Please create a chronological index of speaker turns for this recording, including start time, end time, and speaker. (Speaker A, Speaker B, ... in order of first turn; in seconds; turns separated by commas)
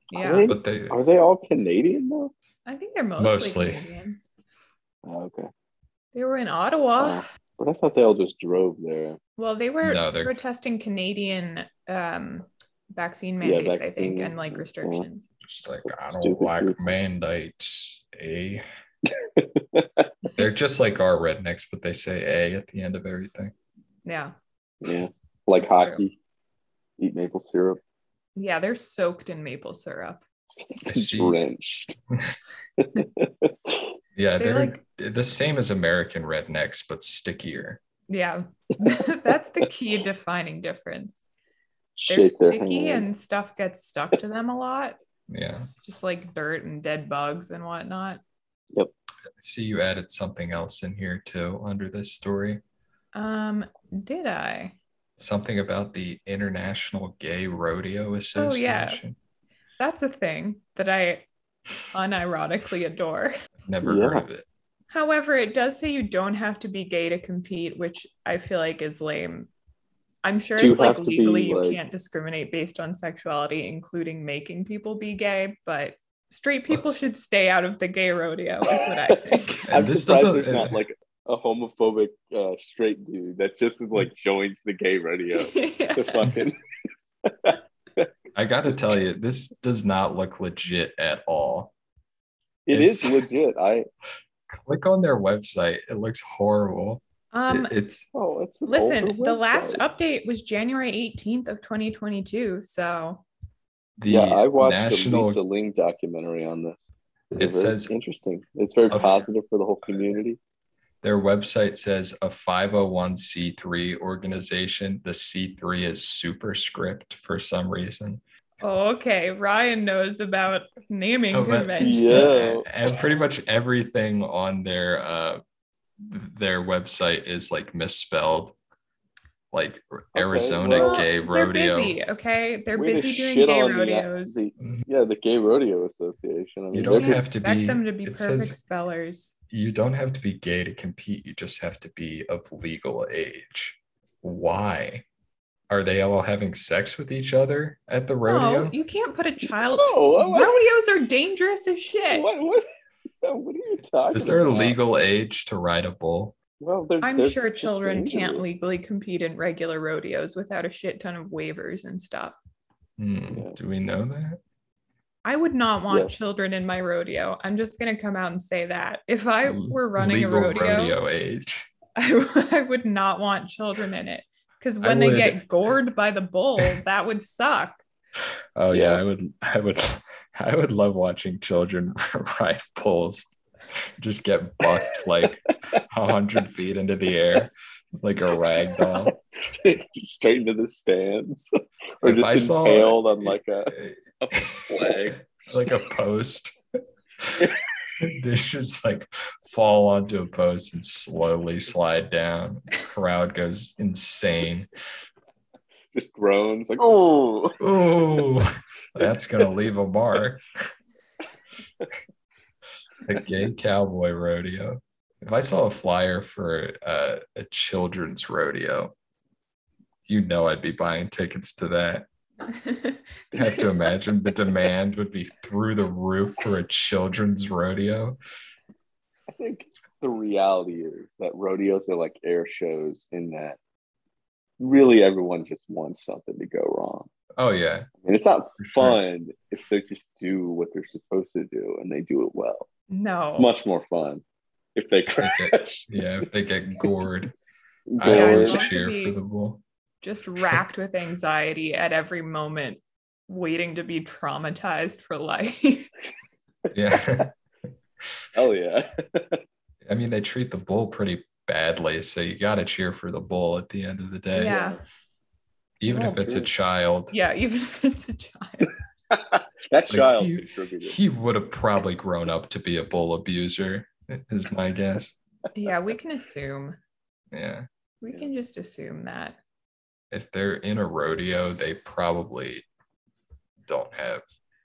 Speaker A: 0.1-0.5, Speaker B: 0.1-2.3, Speaker C: 0.4-1.0, Speaker A: 2.6-4.2, Speaker C: 3.2-3.8, Speaker B: 5.0-5.5, Speaker A: 6.1-7.2, Speaker B: 7.0-9.2, Speaker A: 9.4-15.2, Speaker C: 9.8-10.3, Speaker B: 13.4-15.0, Speaker C: 15.4-18.6, Speaker B: 15.8-16.9, Speaker B: 19.2-20.1, Speaker C: 20.4-23.5, Speaker A: 24.0-24.3, Speaker B: 24.8-26.1, Speaker A: 25.6-26.0, Speaker B: 27.0-27.8, Speaker A: 28.4-30.2, Speaker B: 30.6-32.0, Speaker C: 30.8-31.4, Speaker B: 32.8-33.8, Speaker C: 34.1-37.8, Speaker A: 34.4-34.8, Speaker A: 38.1-41.2, Speaker B: 42.0-43.0, Speaker A: 42.1-45.0, Speaker C: 45.3-45.7, Speaker A: 45.8-48.2, Speaker C: 49.4-52.6, Speaker A: 53.1-54.8, Speaker C: 55.2-59.2, Speaker A: 58.4-59.0, Speaker A: 59.8-61.2, Speaker A: 61.9-63.3, Speaker C: 63.6-64.5, Speaker B: 63.8-64.2, Speaker A: 64.9-69.5, Speaker A: 70.2-79.7, Speaker B: 70.6-71.8, Speaker C: 76.7-77.0, Speaker C: 79.6-80.8, Speaker B: 79.7-86.6, Speaker A: 85.4-86.3, Speaker B: 87.2-88.1, Speaker C: 88.3-91.7, Speaker B: 88.7-89.0, Speaker B: 92.7-93.9, Speaker C: 92.7-93.2, Speaker C: 94.5-98.0, Speaker A: 97.3-97.7, Speaker B: 98.1-99.8, Speaker A: 98.7-103.2, Speaker C: 104.0-105.4, Speaker B: 104.1-106.8, Speaker B: 107.3-110.4, Speaker C: 107.4-107.9, Speaker C: 108.9-109.2, Speaker C: 111.0-118.2, Speaker A: 118.6-122.3, Speaker C: 121.3-125.4, Speaker B: 121.8-122.7, Speaker C: 126.0-128.5, Speaker C: 129.5-131.9, Speaker B: 130.1-131.1, Speaker A: 130.7-134.5, Speaker B: 132.7-137.3, Speaker C: 136.7-138.6, Speaker A: 136.9-139.3, Speaker C: 139.5-145.0, Speaker C: 145.7-148.7, Speaker A: 148.2-152.2, Speaker B: 149.8-150.6, Speaker B: 152.1-152.7, Speaker B: 153.2-154.8, Speaker C: 154.1-156.3, Speaker B: 156.6-158.5, Speaker A: 157.0-162.3, Speaker C: 163.0-164.4, Speaker B: 163.3-163.6, Speaker A: 165.2-171.0, Speaker C: 169.4-171.7, Speaker A: 172.0-177.8, Speaker C: 174.8-175.4, Speaker C: 178.6-183.3, Speaker B: 178.7-179.0, Speaker C: 184.0-189.2, Speaker B: 188.8-191.5, Speaker B: 192.0-195.2, Speaker C: 192.0-196.6, Speaker C: 197.2-197.5, Speaker C: 198.0-204.7, Speaker B: 205.9-207.6, Speaker C: 207.6-210.4, Speaker C: 213.0-218.9, Speaker C: 220.1-222.1, Speaker A: 222.5-223.6, Speaker C: 223.3-228.2, Speaker B: 229.3-233.6, Speaker B: 234.6-237.1, Speaker C: 237.4-237.9, Speaker B: 238.0-242.7, Speaker C: 238.6-239.0, Speaker A: 242.9-243.5, Speaker B: 243.3-244.2, Speaker B: 244.7-245.9, Speaker C: 245.2-247.3, Speaker B: 247.9-248.7, Speaker C: 248.0-249.6, Speaker A: 248.1-249.2, Speaker A: 250.0-255.9, Speaker C: 256.7-257.3, Speaker B: 258.3-259.4, Speaker C: 259.8-264.6, Speaker A: 264.3-264.8, Speaker B: 264.4-264.8, Speaker C: 265.8-267.1, Speaker A: 265.9-266.1, Speaker B: 265.9-266.5, Speaker A: 267.1-268.7, Speaker B: 269.1-271.0, Speaker C: 269.9-275.1, Speaker A: 275.5-276.8, Speaker C: 277.3-277.6, Speaker A: 278.0-279.4, Speaker C: 280.1-282.6, Speaker C: 283.6-284.2